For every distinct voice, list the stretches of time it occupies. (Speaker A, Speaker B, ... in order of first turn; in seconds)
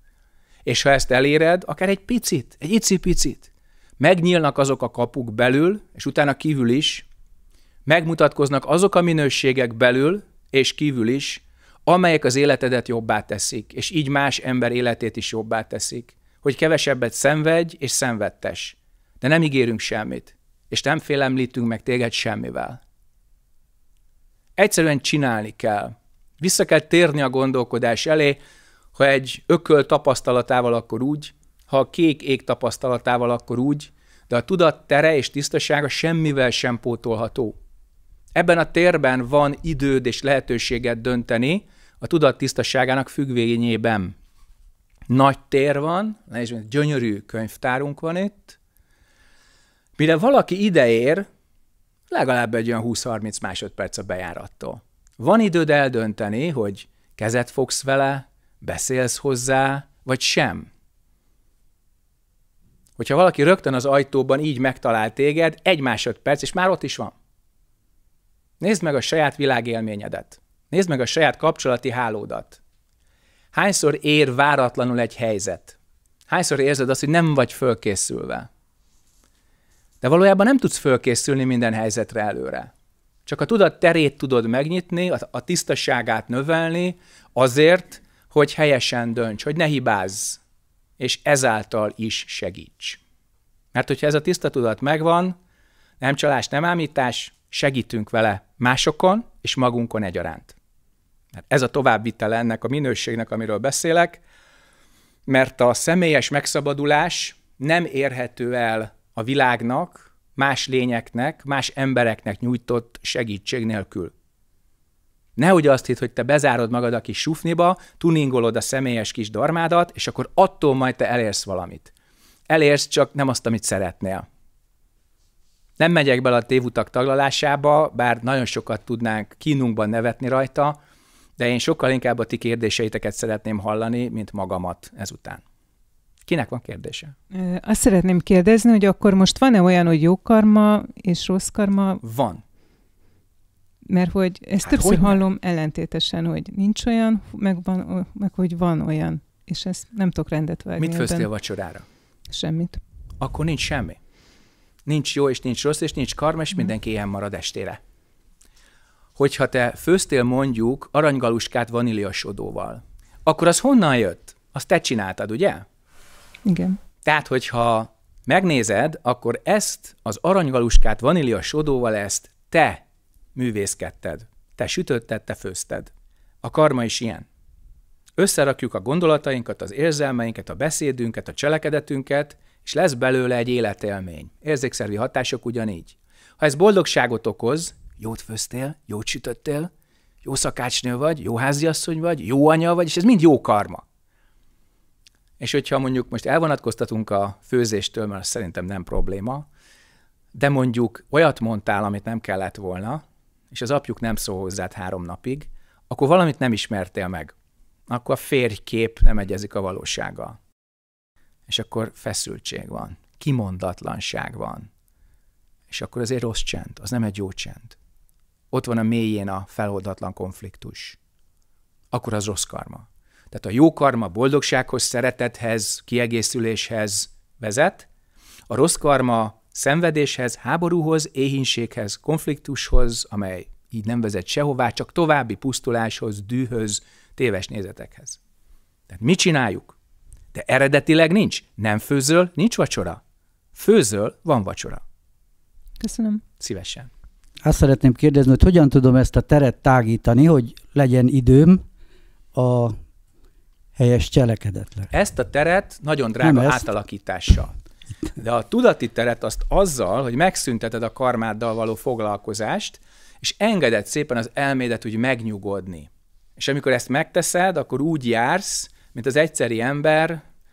Speaker A: 0.7-7.1, 7.9-22.8, 24.6-28.4, 28.9-37.6, 38.3-44.1, 45.1-48.6, 50.0-51.3, 52.1-60.7, 63.0-67.2, 68.6-72.6, 73.5-75.8, 76.3-78.5, 80.0-82.7, 83.3-90.4, 91.0-93.0, 93.7-95.4, 96.0-100.5, 101.5-104.2, 105.3-114.1, 115.4-121.9, 122.5-124.3, 125.8-130.8, 131.4-135.4, 136.3-137.2, 142.0-142.4, 144.6-145.2, 150.8-151.8, 153.2-154.0, 154.9-157.8, 159.2-165.7, 167.1-172.8, 173.3-175.9, 176.4-177.3, 178.2-189.7, 190.2-193.8, 195.4-199.5, 200.3-207.3, 207.9-210.4, 211.5-214.7, 215.7-217.8, 218.5-221.0, 221.9-227.9, 228.5-238.2, 238.9-239.8, 240.3-243.0, 243.6-244.8, 246.4-246.9, 254.9-257.6, 258.2-270.2
Speaker B: 137.3-142.0, 143.9-151.3, 152.3-152.8, 166.4-166.8, 245.8-246.2
Speaker C: 247.4-251.7, 252.3-252.8, 253.8-254.9, 256.2-256.6